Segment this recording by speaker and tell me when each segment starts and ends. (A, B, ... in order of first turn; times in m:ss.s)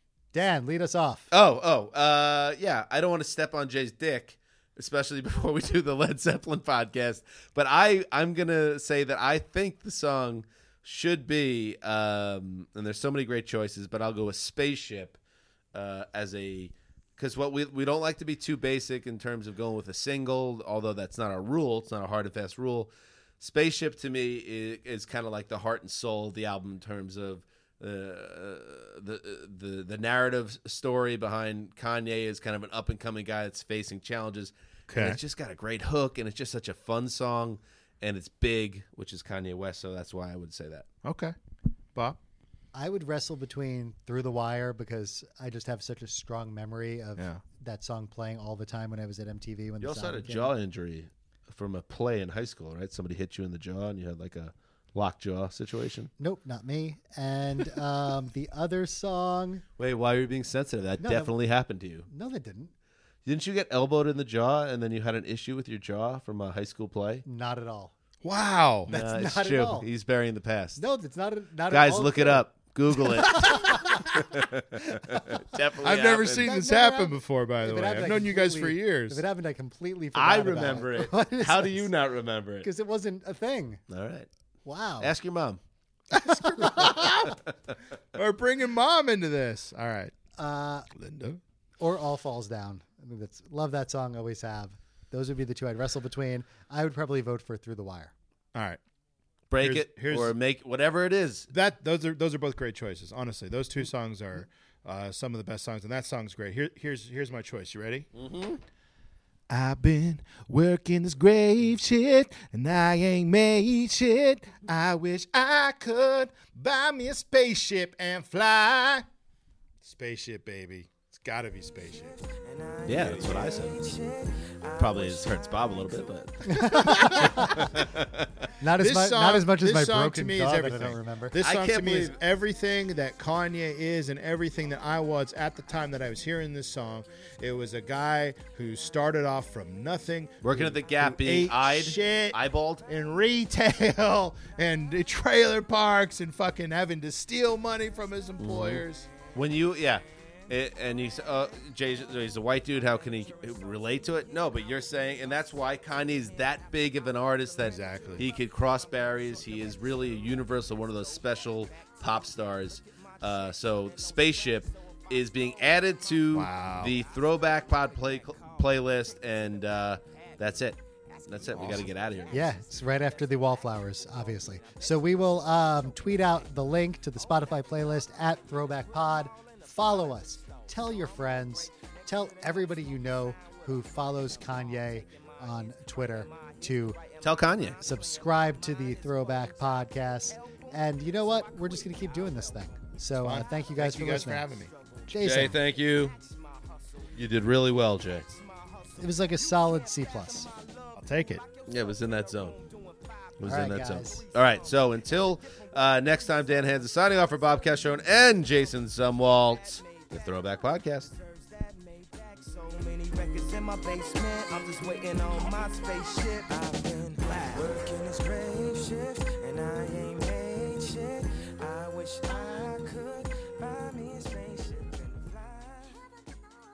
0:00.3-0:01.3 A
0:01.3-0:15.2 B
0:15.7-0:40.9 B
0:34.9-0:35.2 C
0:41.0-0:41.3 C
0:42.7-0:50.5 A
0:47.2-0:47.4 C
0:49.8-0:56.1 B
0:56.2-0:59.6 A
0:59.8-1:02.1 B
1:01.0-1:01.3 A
1:02.1-1:02.7 A
1:03.2-1:07.2 B
1:07.2-1:07.9 A
1:08.2-1:08.9 C
1:08.9-1:09.9 A
1:08.9-1:10.8 B
1:10.8-1:14.2 A
1:11.7-1:16.5 B
1:15.8-1:19.2 C
1:16.4-1:21.9 A
1:20.1-1:22.7 B
1:22.6-1:23.8 A
1:23.9-1:24.3 B
1:24.6-1:25.1 A
1:25.0-1:25.6 B
1:26.1-1:27.4 C
1:26.3-1:27.0 A
1:28.1-1:30.1 C
1:30.4-1:30.9 A
1:30.9-1:31.4 C
1:31.8-1:38.1 A
1:38.5-1:38.8 C
1:39.5-1:41.5 B
1:39.6-1:40.3 C
1:41.5-1:48.1 C
1:48.1-1:48.6 B
1:49.5-1:59.0 C
1:59.8-2:02.1 C
2:02.2-2:05.4 D
2:02.8-2:03.8 B
2:04.8-2:08.5 B
2:06.4-2:07.7 A
2:08.6-2:11.4 A
2:08.8-2:29.1 C
2:11.4-2:12.2 B
2:20.4-2:22.8 B
2:28.4-2:52.5 B
2:37.6-2:38.2 C
2:46.3-2:47.0 C
2:51.5-2:51.9 C
2:52.3-3:07.0 A
3:07.2-3:07.8 B
3:07.8-3:14.5 A
3:13.2-3:14.7 C
3:15.1-3:15.6 A
3:15.2-3:16.2 B
3:17.1-3:18.3 B
3:19.0-3:20.5 A
3:21.0-3:21.4 C
3:21.7-3:22.6 B
3:23.4-3:31.1 B
3:23.4-3:24.2 A
3:31.5-3:45.9 D